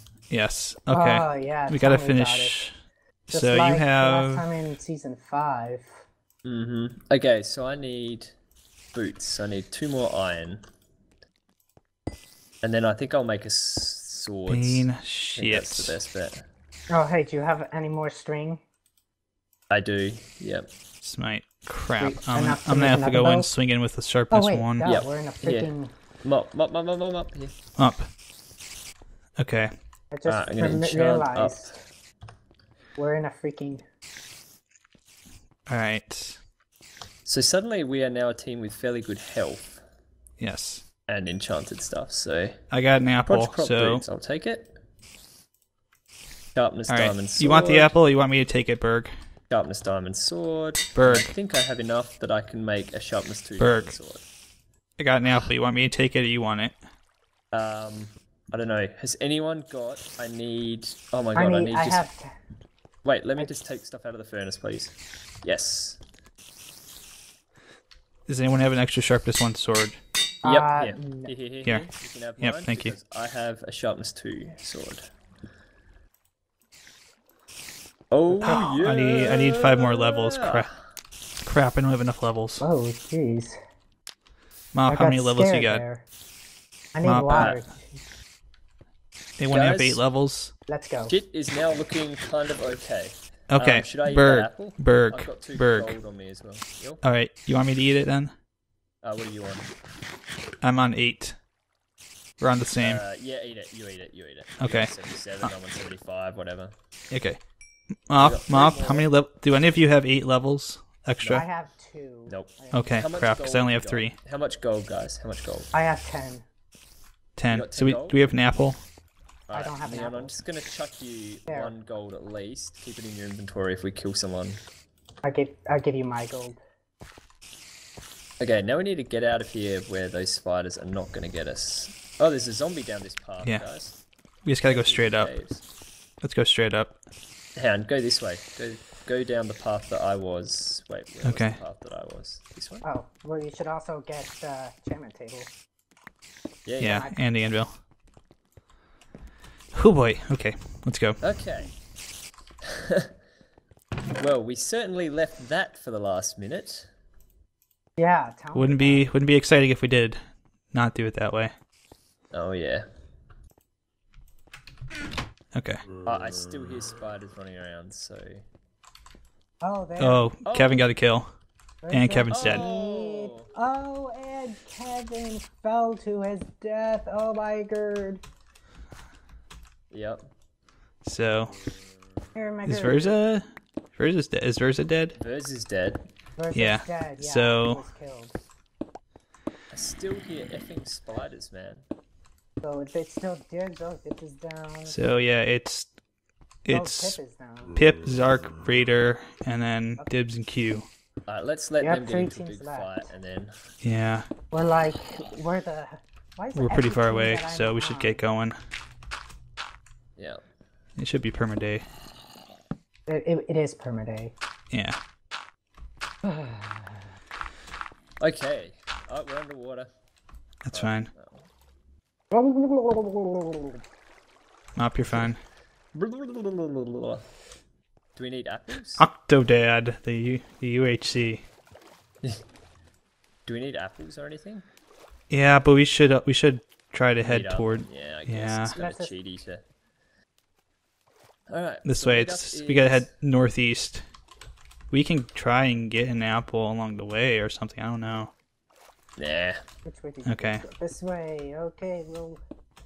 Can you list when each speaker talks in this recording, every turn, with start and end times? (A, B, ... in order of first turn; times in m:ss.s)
0:00.3-0:02.7 A
0:00.9-0:02.6 B
0:03.3-0:04.5 A
0:03.3-0:06.0 B
0:06.4-0:08.3 C
0:08.9-0:10.6 C
0:12.6-0:16.4 C
0:14.5-0:16.0 A
0:16.9-0:18.6 B
0:19.7-0:20.6 C
0:21.0-0:24.9 A
0:22.0-0:23.5 B
0:24.3-0:25.9 B
0:24.8-0:25.7 C
0:26.2-0:27.5 C
0:27.8-0:28.1 A
0:29.4-0:29.7 A
0:30.1-0:31.8 B
0:30.3-0:31.8 C
0:33.0-0:33.8 B
0:35.7-0:36.4 A
0:37.2-0:39.8 C
0:40.4-0:40.8 A
0:41.1-0:42.6 C
0:42.7-0:44.0 A
0:43.2-0:44.7 C
0:46.5-0:48.0 C
0:46.9-0:49.1 A
0:49.5-0:54.2 C
0:51.0-0:51.3 A
0:53.6-0:54.0 A
0:55.0-0:56.8 A
0:57.5-1:02.0 C
1:01.3-1:02.3 B
1:03.0-1:06.0 C
1:08.3-1:10.0 A
1:10.4-1:11.3 B
1:10.4-1:15.0 C
1:11.6-1:12.9 A
1:18.1-1:20.8 C
1:18.4-1:20.7 A
1:18.4-1:18.7 B
1:21.4-1:22.6 A
1:22.6-1:23.6 B
1:24.7-1:25.8 A
1:24.9-1:26.0 B
1:26.9-1:28.0 B
1:27.0-1:27.6 A
1:27.3-1:27.6 C
1:29.4-1:30.5 A
1:29.5-1:30.0 C
1:30.7-1:31.1 B
1:31.1-1:37.0 C
1:33.5-1:36.0 A
1:37.0-1:38.3 A
1:39.0-1:39.7 C
1:40.6-1:41.4 A
1:42.4-1:43.0 A
1:42.8-1:46.7 C
1:44.6-1:45.5 A
1:47.1-1:47.4 A
1:48.1-1:51.4 A
1:48.2-1:49.1 C
1:51.2-1:51.4 C
1:51.3-1:53.0 B
1:52.3-1:55.7 C
1:52.7-1:54.2 A
1:55.7-1:56.4 B
1:57.4-1:58.8 A
1:57.5-1:58.2 C
1:59.5-2:04.6 C
1:59.5-2:00.4 B
2:01.5-2:01.7 B
2:05.2-2:06.6 B
2:08.4-2:14.0 C
2:14.4-2:15.3 A
2:14.7-2:15.6 C
2:16.2-2:17.0 A
2:17.6-2:22.8 C
2:21.2-2:21.6 A
2:22.8-2:25.5 B
2:26.7-2:27.1 C
2:26.8-2:27.8 A
2:26.8-2:27.2 B
2:29.7-2:31.2 A
2:31.2-2:31.7 C
2:34.2-2:36.9 C
2:38.0-2:39.0 B
2:38.5-2:40.2 A
2:40.7-2:41.5 A
2:42.3-2:42.8 C
2:45.5-2:45.8 A
2:46.0-2:48.4 C
2:49.6-2:50.3 B
2:50.0-2:51.3 A
2:50.4-2:50.8 C
2:51.8-2:58.2 B
2:51.9-2:52.7 A
2:52.3-2:53.4 C
2:59.9-3:00.2 C
3:01.0-3:01.6 A
3:02.3-3:03.2 B
3:02.7-3:05.2 A
3:05.2-3:06.0 C
3:06.4-3:08.4 B
3:06.5-3:07.8 A
3:09.7-3:11.8 C
3:12.6-3:15.0 B
3:14.9-3:15.9 A
3:16.6-3:17.2 A
3:16.7-3:17.7 B
3:17.8-3:20.9 A
3:21.3-3:23.5 C
3:21.8-3:23.1 B
3:23.8-3:24.3 A
3:24.5-3:28.2 B
3:26.6-3:28.6 A
3:31.0-3:31.8 A
3:33.1-3:34.3 B
3:34.7-3:35.0 A
3:36.2-3:37.1 B
3:38.2-3:39.9 C
3:40.6-3:41.1 A
3:40.7-3:41.4 C
3:42.3-3:43.8 B
3:44.8-3:45.4 A
3:45.9-3:47.2 C
3:48.2-3:49.0 C
3:49.0-3:51.4 A
3:53.5-3:54.6 C
3:55.3-3:58.7 A
3:57.2-3:59.6 C
3:58.8-3:59.1 B
4:01.5-4:03.1 C
4:01.8-4:04.0 A
4:04.9-4:08.3 A
4:09.2-4:09.6 C
4:09.8-4:12.4 B
4:10.2-4:10.6 A